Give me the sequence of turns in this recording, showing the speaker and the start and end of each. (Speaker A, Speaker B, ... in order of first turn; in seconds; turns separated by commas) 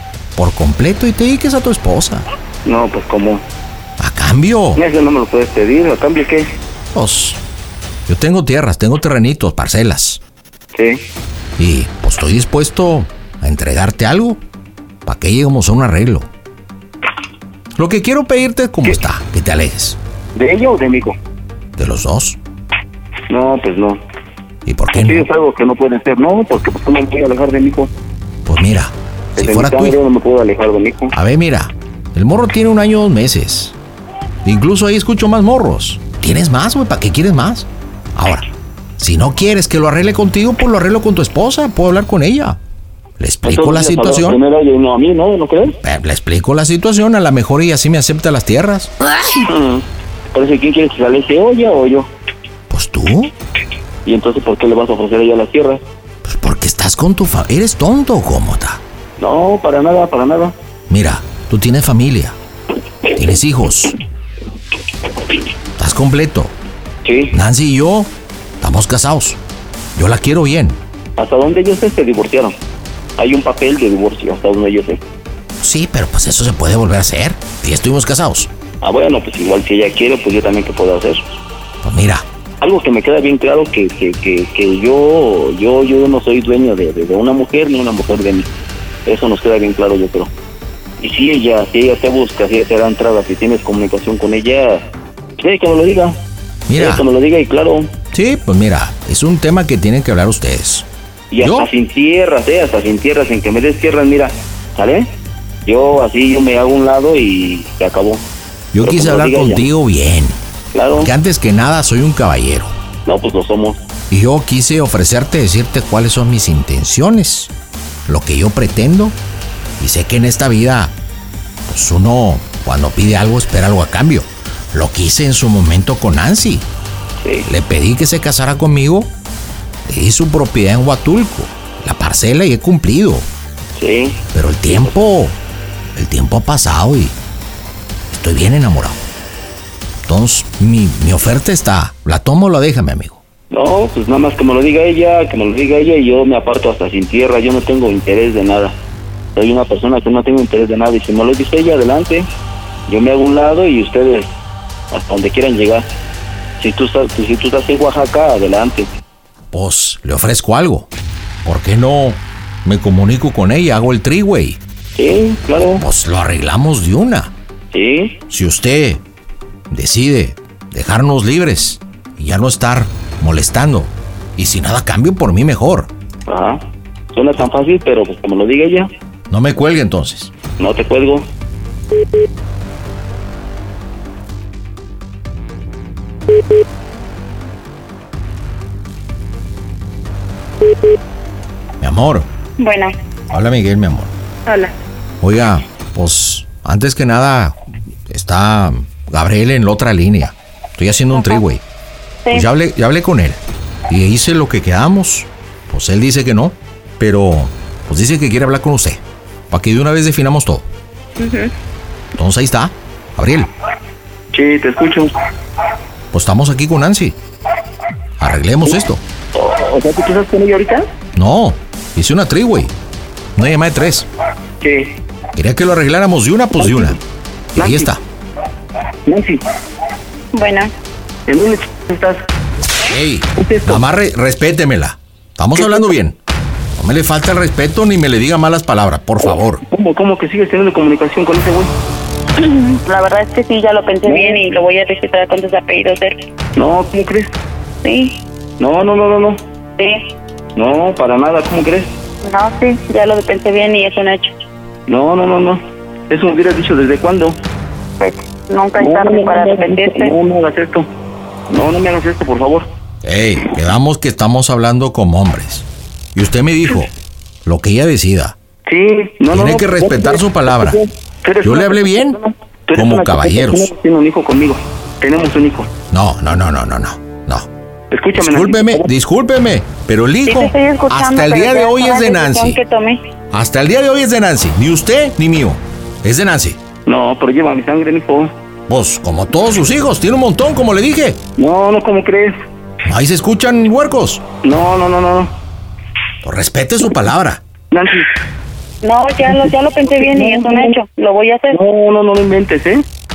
Speaker A: 0.3-2.3, Speaker B: 2.6-3.4, Speaker A: 4.0-4.8, Speaker B: 4.8-6.5, Speaker A: 6.9-7.4, Speaker A: 8.1-10.2, Speaker B: 10.7-11.0, Speaker A: 11.6-14.4, Speaker A: 15.0-16.3, Speaker A: 17.8-20.0, Speaker B: 20.3-21.1, Speaker A: 21.8-22.4, Speaker B: 23.3-24.0, Speaker A: 24.6-25.3, Speaker B: 24.9-27.9, Speaker A: 28.4-29.9, Speaker B: 29.4-31.1, Speaker A: 31.1-33.8, Speaker A: 34.4-38.5, Speaker A: 39.0-42.6, Speaker A: 43.2-44.4, Speaker B: 43.4-45.8, Speaker A: 45.8-48.9, Speaker B: 49.4-52.1, Speaker A: 52.7-53.3, Speaker B: 54.0-55.8, Speaker A: 56.2-58.8, Speaker B: 59.2-60.5, Speaker A: 60.9-62.4, Speaker A: 63.1-63.9, Speaker A: 65.8-66.5, Speaker B: 67.0-67.3, Speaker A: 67.3-69.4, Speaker A: 70.0-70.8, Speaker B: 71.2-72.5, Speaker B: 73.2-75.0, Speaker A: 75.6-78.5, Speaker B: 78.8-81.2, Speaker A: 81.8-82.2, Speaker B: 82.6-88.5, Speaker B: 89.0-90.3, Speaker B: 91.0-94.8, Speaker B: 95.4-96.2, Speaker A: 96.7-97.0, Speaker B: 96.8-97.9, Speaker A: 98.1-100.9, Speaker B: 101.3-105.1, Speaker A: 101.4-101.7, Speaker B: 105.7-108.2, Speaker A: 108.7-110.4, Speaker B: 108.8-109.7, Speaker B: 110.7-111.1, Speaker A: 110.9-112.7, Speaker B: 113.0-113.8, Speaker A: 114.1-117.5, Speaker A: 118.1-119.2, Speaker A: 119.8-120.9, Speaker A: 121.7-126.7, Speaker B: 127.2-127.5, Speaker A: 127.5-129.1, Speaker A: 129.8-133.2, Speaker B: 133.8-134.8, Speaker A: 134.3-135.3, Speaker A: 135.9-137.2, Speaker A: 138.1-139.0, Speaker A: 140.1-143.2, Speaker B: 143.5-148.7, Speaker B: 149.3-152.3, Speaker B: 152.9-154.3, Speaker B: 154.9-155.8, Speaker B: 156.6-158.9, Speaker A: 159.5-160.9, Speaker A: 161.4-164.6, Speaker B: 164.9-165.8, Speaker A: 165.7-167.3, Speaker B: 167.7-168.2, Speaker A: 168.3-169.0, Speaker A: 169.7-175.9, Speaker B: 176.3-176.6, Speaker B: 177.1-178.9, Speaker A: 179.3-180.3, Speaker B: 180.6-181.3, Speaker A: 191.8-192.3, Speaker C: 192.6-192.9, Speaker A: 193.3-194.1, Speaker C: 194.4-194.7, Speaker A: 195.2-197.6, Speaker A: 198.1-201.6, Speaker C: 201.1-201.4, Speaker A: 202.3-210.6, Speaker C: 211.2-211.5, Speaker A: 212.1-213.5, Speaker B: 214.3-215.1, Speaker A: 216.1-217.2, Speaker A: 218.2-219.0, Speaker B: 219.3-220.9, Speaker A: 221.1-222.7, Speaker A: 223.3-224.1, Speaker B: 224.6-224.9, Speaker A: 225.3-227.0, Speaker B: 226.6-226.9, Speaker A: 227.5-228.0, Speaker B: 227.6-227.9, Speaker B: 229.1-229.4, Speaker C: 230.3-230.7, Speaker B: 231.3-232.2, Speaker A: 232.8-236.2, Speaker B: 233.3-233.8, Speaker B: 235.6-235.9, Speaker A: 236.8-239.6, Speaker B: 239.7-241.7, Speaker C: 242.4-246.2, Speaker B: 244.1-244.4, Speaker B: 246.6-247.3, Speaker C: 247.8-248.2, Speaker B: 248.6-249.4, Speaker C: 249.8-250.1, Speaker B: 250.6-251.9, Speaker C: 252.2-254.3, Speaker B: 254.9-257.4, Speaker C: 258.0-260.1, Speaker B: 258.8-260.9, Speaker B: 261.5-262.7, Speaker A: 263.0-266.9, Speaker A: 267.4-268.3, Speaker B: 268.7-275.7, Speaker A: 269.3-270.8, Speaker A: 271.4-272.2, Speaker A: 272.7-273.7, Speaker A: 275.9-277.5, Speaker B: 277.9-278.9, Speaker A: 278.1-282.6, Speaker C: 280.2-283.0, Speaker A: 283.3-286.6, Speaker B: 286.9-288.3, Speaker A: 288.7-291.2, Speaker B: 291.4-292.4, Speaker A: 292.8-294.2, Speaker B: 294.4-295.3, Speaker A: 296.2-297.4, Speaker B: 297.7-298.1, Speaker C: 298.8-301.6, Speaker B: 299.3-300.8, Speaker B: 301.5-302.8